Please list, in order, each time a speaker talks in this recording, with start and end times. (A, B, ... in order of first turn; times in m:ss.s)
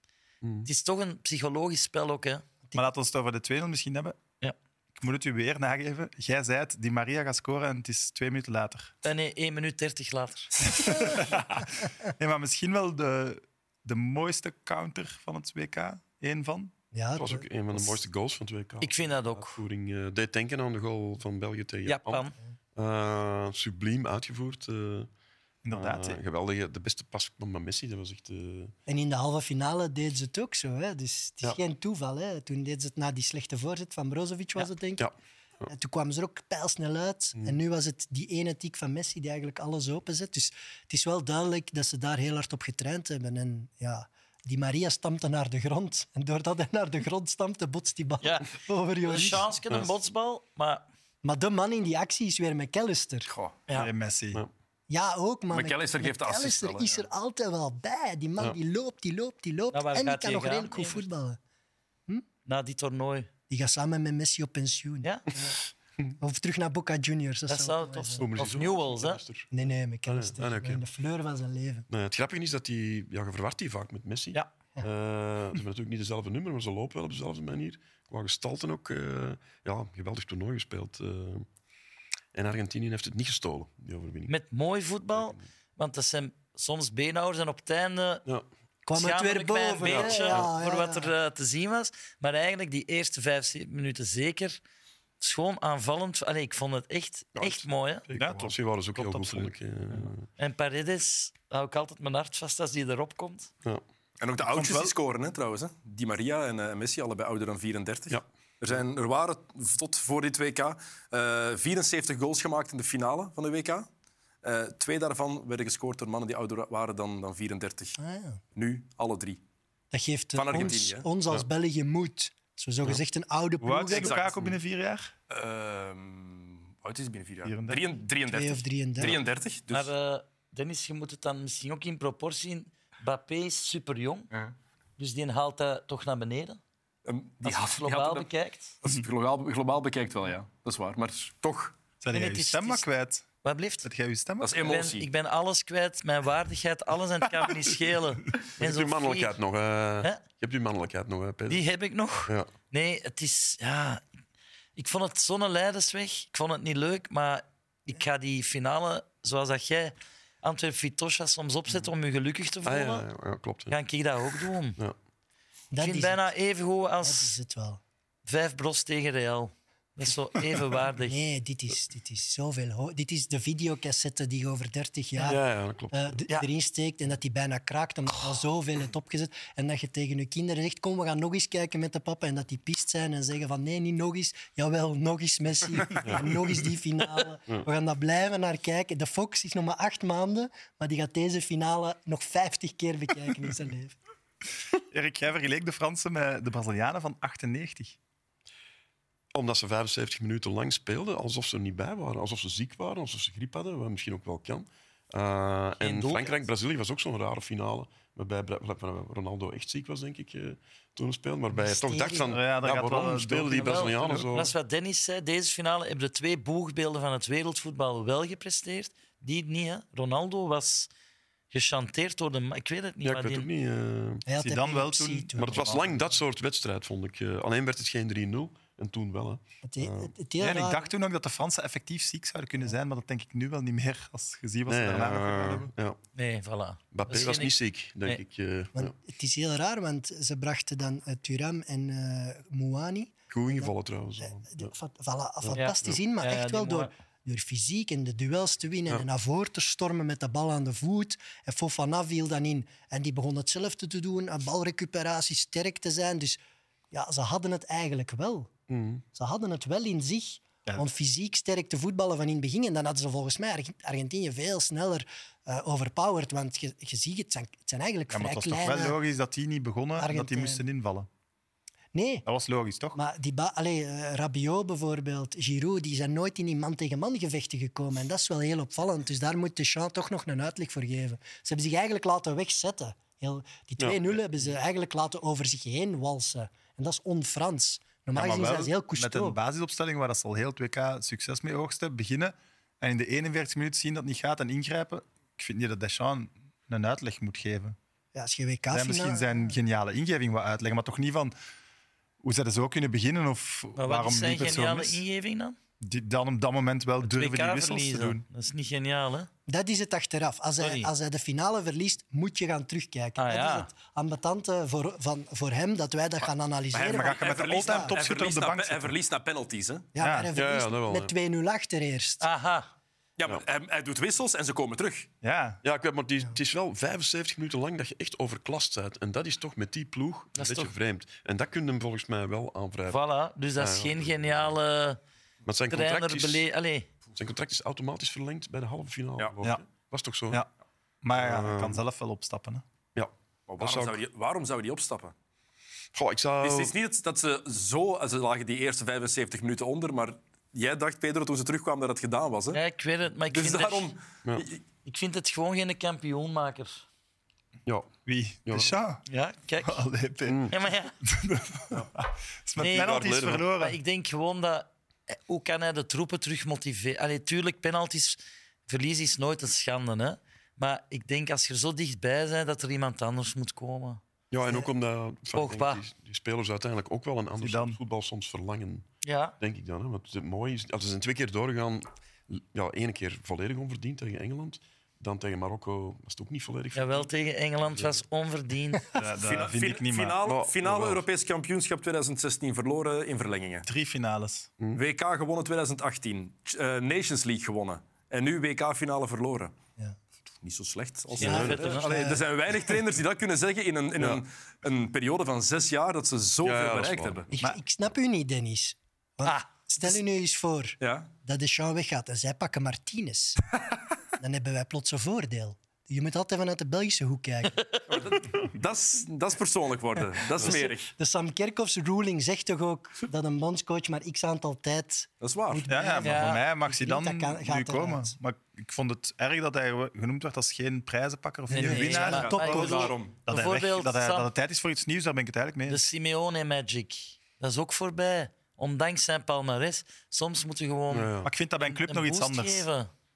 0:00.4-0:00.7 A
0:00.6-0:02.4 B
0:02.8-0:04.2 C
0:05.0-0:08.9 C
0:09.0-0:10.5 B
0:10.6-0:16.7 C
0:16.9-0:18.0 D
0:17.1-0:25.1 A
0:18.8-0:19.6 B
0:21.9-0:22.4 B
0:25.6-0:26.2 C
0:25.7-0:28.7 A
0:28.9-0:35.1 D
0:35.0-0:35.7 A
0:35.7-0:49.5 D
0:48.2-0:48.5 B
0:49.0-0:50.8 B
0:51.2-0:53.3 D
0:53.3-0:53.6 E
0:53.8-0:54.4 C
0:54.9-1:01.4 D
0:55.5-0:57.1 E
0:59.7-1:01.1 B
1:02.5-1:03.3 B
1:03.5-1:05.6 D
1:06.2-1:08.3 D
1:07.5-1:09.2 B
1:08.2-1:09.5 A
1:09.5-1:11.9 D
1:10.1-1:10.8 A
1:11.9-1:21.5 A
1:22.3-1:24.3 A
1:24.3-1:28.2 B
1:25.1-1:25.4 A
1:28.8-1:31.1 D
1:29.0-1:34.6 B
1:29.8-1:30.5 A
1:35.2-1:38.0 B
1:37.4-1:40.3 A
1:38.1-1:39.5 C
1:40.4-1:43.5 B
1:44.2-1:53.9 E
1:44.5-1:44.9 C
1:54.4-1:58.0 E
1:58.0-1:58.4 D
1:58.6-1:59.4 E
1:59.9-2:04.2 D
2:00.4-2:01.1 E
2:03.6-2:05.1 C
2:03.9-2:04.5 E
2:05.3-2:09.9 E
2:07.4-2:07.8 C
2:08.3-2:09.2 D
2:09.7-2:14.3 B
2:15.0-2:16.6 B
2:17.0-2:18.3 E
2:17.4-2:18.8 B
2:18.8-2:21.8 E
2:22.0-2:23.3 C
2:22.1-2:22.9 B
2:23.4-2:23.9 B
2:23.8-2:24.6 C
2:24.4-2:25.1 E
2:24.6-2:29.4 B
2:28.6-2:31.6 A
2:31.5-2:34.0 B
2:34.8-2:43.1 B
2:42.6-2:43.8 A
2:43.7-2:44.8 B
2:45.7-2:46.3 D
2:45.8-2:47.4 B
2:47.0-2:47.8 D
2:48.2-2:51.2 B
2:51.0-3:14.0 D
2:55.2-2:56.2 A
3:06.0-3:06.3 A
3:14.9-3:18.0 C
3:19.3-3:34.5 A
3:25.8-3:26.4 B
3:31.5-3:32.3 D
3:32.3-3:34.3 C
3:33.6-3:40.9 B
3:41.5-3:43.5 B
3:43.0-3:44.2 A
3:44.3-3:45.9 D
3:44.4-3:45.8 C
3:45.4-3:50.1 A
3:49.6-3:50.9 D
3:50.4-3:55.7 C
3:54.7-3:56.0 A
3:56.2-3:58.2 B
3:56.9-3:58.9 A
3:58.8-4:03.7 D
4:03.3-4:04.7 A
4:04.2-4:16.4 D
4:05.4-4:06.0 A
4:05.5-4:06.9 B
4:16.9-4:18.5 D
4:18.7-4:19.0 A
4:19.1-4:29.0 D
4:28.1-4:31.1 C
4:30.0-4:30.6 D
4:31.9-4:32.2 D
4:32.2-4:33.0 C
4:33.0-4:49.4 D
4:43.8-4:44.2 A
4:48.1-4:57.8 C
4:58.1-4:59.5 D
4:58.7-5:01.3 C
5:02.2-5:05.0 C
5:03.8-5:05.6 B
5:05.8-5:08.2 C
5:07.0-5:09.3 B
5:09.5-5:17.9 D
5:10.6-5:10.9 B
5:13.2-5:13.7 B
5:16.7-5:19.9 E
5:16.8-5:18.9 C
5:19.9-5:22.3 D
5:20.0-5:20.3 C
5:20.3-5:21.1 A
5:22.2-5:22.7 B
5:23.2-5:25.1 E
5:25.2-5:25.6 C
5:25.6-5:33.0 A
5:30.4-5:30.7 B
5:32.9-5:35.0 B
5:33.6-5:34.6 A
5:35.4-5:36.4 A
5:35.7-5:36.9 B
5:37.2-5:40.4 A
5:41.0-5:42.6 C
5:41.1-5:41.8 A
5:42.9-5:44.0 A
5:43.5-5:45.1 E
5:45.9-5:46.8 A
5:46.4-5:52.6 E
5:52.5-5:53.9 B
5:53.3-5:54.6 E
5:54.8-5:56.9 B
5:57.6-5:57.9 A
5:58.1-5:59.0 C
5:58.4-5:58.7 A
5:59.1-5:59.8 B
5:59.6-6:00.5 C
6:00.3-6:00.6 A
6:00.5-6:00.9 B
6:01.0-6:03.8 C
6:02.6-6:03.0 B
6:02.6-6:03.4 A
6:03.6-6:14.0 B
6:14.3-6:18.9 A
6:15.3-6:15.8 B
6:17.4-6:17.8 C
6:19.0-6:19.4 B
6:19.4-6:27.1 A
6:26.8-6:28.8 B
6:27.8-6:28.0 A
6:28.9-6:30.2 C
6:29.2-6:33.6 E
6:30.2-6:31.0 A
6:33.6-6:34.5 C
6:34.7-6:39.6 E
6:40.4-6:47.3 E
6:41.2-6:41.8 A
6:41.2-6:42.0 B
6:41.2-6:42.2 D
6:46.4-6:47.3 A
6:47.3-6:53.6 D
6:50.8-6:51.1 E
6:54.2-6:57.8 D
6:57.9-7:00.9 E
7:00.4-7:08.1 D
7:05.2-7:05.6 E
7:05.7-7:15.9 C
7:06.0-7:06.4 B
7:11.5-7:14.3 B
7:11.5-7:13.0 D
7:12.1-7:13.1 E
7:15.7-7:22.9 B
7:20.9-7:21.3 A
7:21.2-7:22.7 C